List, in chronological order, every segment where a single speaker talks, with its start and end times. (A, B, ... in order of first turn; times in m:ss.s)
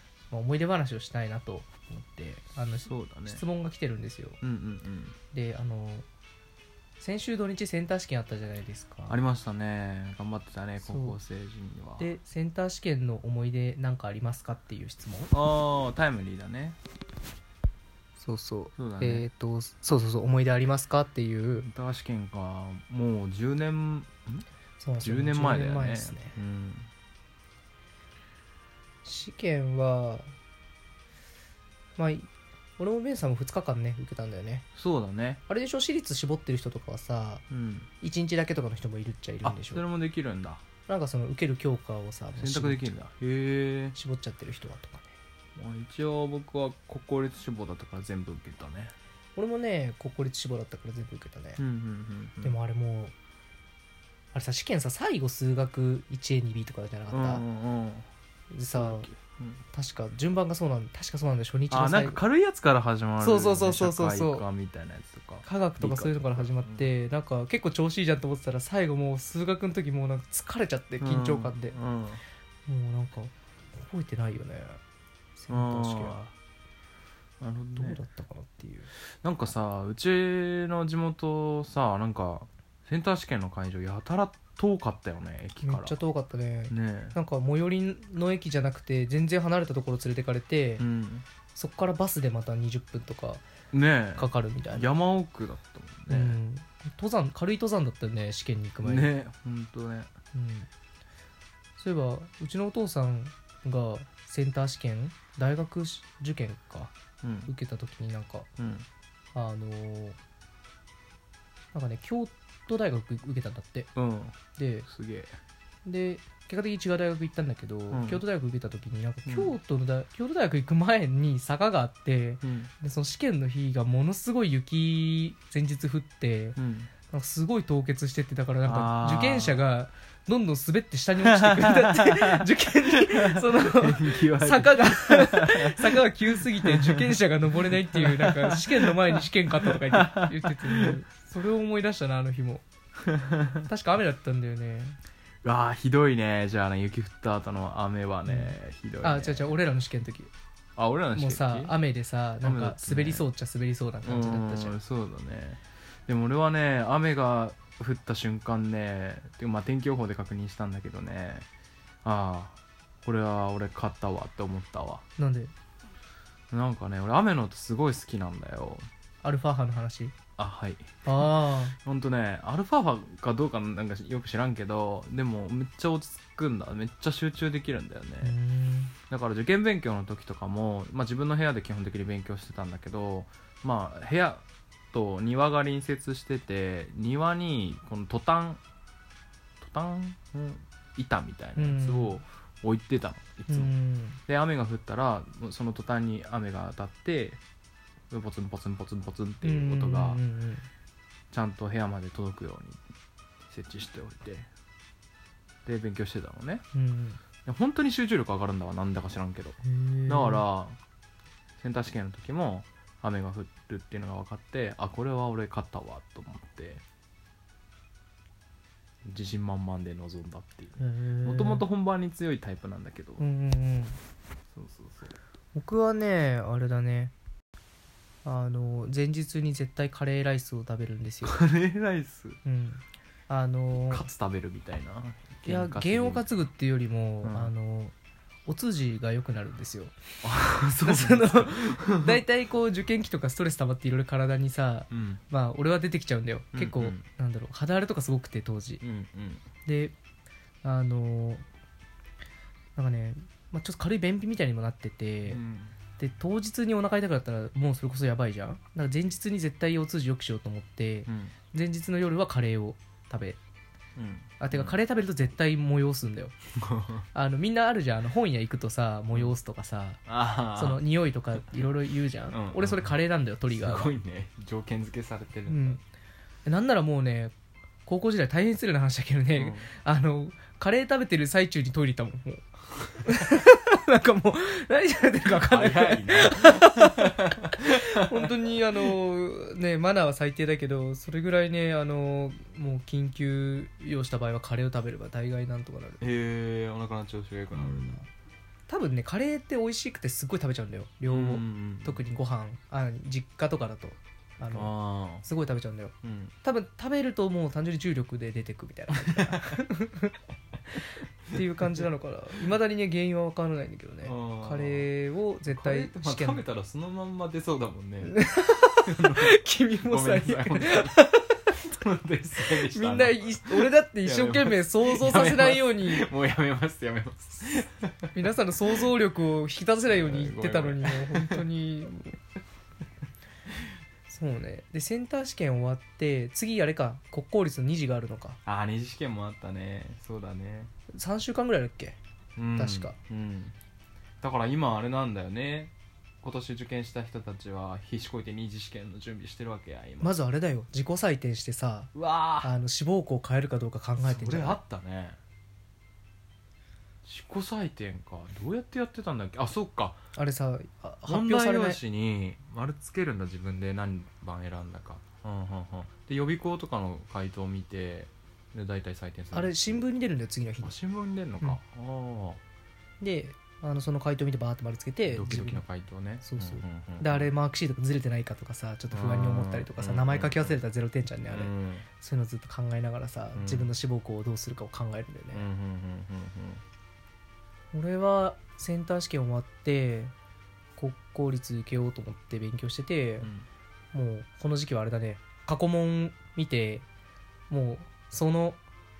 0:00.3-0:04.4 A
0:02.8-0:03.4 B
0:04.4-0:05.2 B
0:05.3-0:06.0 A
0:07.0-0:09.2 A
0:09.1-0:12.1 B
0:10.8-0:11.2 A
0:12.0-0:15.3 A
0:15.3-0:16.8 B
0:18.2-0:21.7 A
0:18.8-0:19.2 B
0:21.6-0:24.4 B
0:24.8-0:26.3 A
0:25.0-0:26.9 B
0:29.0-0:30.3 A
0:32.0-0:34.6 A
0:34.7-0:35.4 B
0:35.5-0:37.4 A
0:37.5-0:37.9 B
0:38.0-0:39.8 A
0:39.4-0:40.6 B
0:40.9-0:42.8 A
0:42.4-0:44.0 B
0:43.9-0:45.1 A
0:45.6-0:48.9 B
0:49.4-0:51.6 A
0:51.6-0:52.5 B
0:52.4-0:53.1 A
0:54.3-0:57.4 A
0:57.1-0:58.0 B
0:58.5-0:59.1 A
0:58.7-0:59.6 B
0:59.7-1:02.2 A
1:01.7-1:06.8 B
1:03.2-1:04.4 A
1:05.4-1:11.8 A
1:11.0-1:12.2 B
1:12.7-1:14.8 A
1:15.4-1:16.2 A
1:15.5-1:16.3 B
1:17.4-1:18.0 B
1:17.8-1:18.9 A
1:19.2-1:26.0 B
1:25.6-1:30.8 A
1:26.7-1:27.2 B
1:30.8-1:31.2 B
1:31.5-1:33.4 A
1:33.7-1:36.4 B
1:34.2-1:34.9 A
1:36.1-1:39.1 A
1:38.8-1:40.1 B
1:40.3-1:40.7 A
1:41.8-1:46.9 A
1:47.2-1:47.5 B
1:47.5-1:48.5 A
1:48.6-1:48.9 B
1:49.3-1:50.2 A
1:51.7-1:53.9 A
1:53.9-1:54.3 B
1:54.6-1:54.9 A
1:54.9-1:55.4 B
1:55.8-2:06.6 A
1:57.9-1:58.2 B
1:59.2-1:59.5 B
2:02.4-2:02.7 B
2:06.6-2:06.9 B
2:07.1-2:22.6 A
2:08.6-2:09.6 B
2:11.2-2:17.2 B
2:17.7-2:20.9 B
2:23.0-2:23.6 B
2:23.6-2:25.0 A
2:25.4-2:29.6 B
2:28.2-2:30.3 A
2:30.8-2:31.7 B
2:31.1-2:34.8 A
2:32.4-2:33.2 B
2:34.0-2:41.5 B
2:42.0-2:45.0 B
2:45.2-2:45.5 A
2:46.5-2:48.8 B
2:49.2-2:50.1 A
2:50.4-2:58.3 B
2:51.0-2:51.8 A
2:58.2-2:58.9 A
2:59.1-3:08.6 B
3:09.6-3:13.7 B
3:11.6-3:12.2 A
3:13.5-3:14.2 A
3:14.3-3:17.4 B
3:18.1-3:20.2 B
3:19.4-3:20.6 A
3:21.3-3:22.8 B
3:23.5-3:24.5 B
3:25.6-3:26.6 B
3:26.7-3:27.2 A
3:27.4-3:30.8 B
3:29.6-3:30.4 A
3:31.6-3:36.8 B
3:39.0-3:43.2 B
3:40.8-3:41.6 A
3:43.2-3:44.0 A
3:44.5-3:45.1 B
3:45.5-3:47.1 A
3:48.2-3:51.4 A
3:51.2-3:52.4 B
3:52.4-3:54.1 A
3:53.9-3:56.3 B
3:55.4-3:57.9 A
3:57.2-3:57.5 B
3:58.5-4:00.0 A
4:00.2-4:02.2 B
4:00.8-4:08.8 A
4:04.9-4:05.2 B
4:06.5-4:07.0 B
4:08.8-4:09.4 B
4:09.6-4:09.9 A
4:10.6-4:11.4 A
4:12.8-4:15.4 A
4:15.3-4:15.7 B
4:16.0-4:23.4 A
4:21.1-4:21.3 B
4:24.0-4:24.8 B
4:24.4-4:26.3 A
4:26.6-4:27.0 B
4:27.1-4:30.0 A
4:30.0-4:30.8 B
4:30.5-4:33.9 A
4:32.3-4:33.0 B
4:33.5-4:35.8 B
4:35.5-4:35.8 A
4:36.4-4:37.3 A
4:37.8-4:42.4 A
4:39.4-4:39.7 B
4:43.0-4:56.0 A
4:45.4-4:48.9 B
4:56.0-4:58.1 B
4:57.5-4:58.0 A
4:58.7-5:10.2 A
5:01.1-5:02.0 B
5:04.5-5:05.2 B
5:06.0-5:06.3 B
5:09.1-5:09.6 B
5:11.3-5:16.4 A
5:11.4-5:11.8 B
5:14.0-5:14.9 B
5:15.5-5:18.2 B
5:18.0-5:21.4 A
5:18.8-5:21.0 B
5:21.5-5:28.2 B
5:22.4-5:26.1 A
5:28.1-5:32.2 A
5:29.8-5:31.4 B
5:34.1-5:38.4 A
5:38.4-5:40.7 B
5:40.9-5:42.0 A
5:42.4-5:43.5 B
5:42.6-5:43.0 A
5:44.2-5:50.2 B
5:50.0-5:54.6 A
5:51.9-5:52.5 B
5:54.0-5:55.2 B
5:57.0-6:00.0 B
6:00.2-6:01.8 A
6:01.1-6:09.8 B
6:09.3-6:10.7 A
6:10.6-6:12.4 B
6:13.0-6:15.6 A
6:15.1-6:17.3 B
6:16.2-6:25.4 A
6:18.9-6:20.6 B
6:21.3-6:21.8 B
6:23.3-6:23.7 B
6:25.3-6:26.6 B
6:27.7-6:30.1 A
6:30.8-6:33.3 A
6:33.2-6:33.5 B
6:33.9-6:36.8 A
6:37.5-6:38.6 A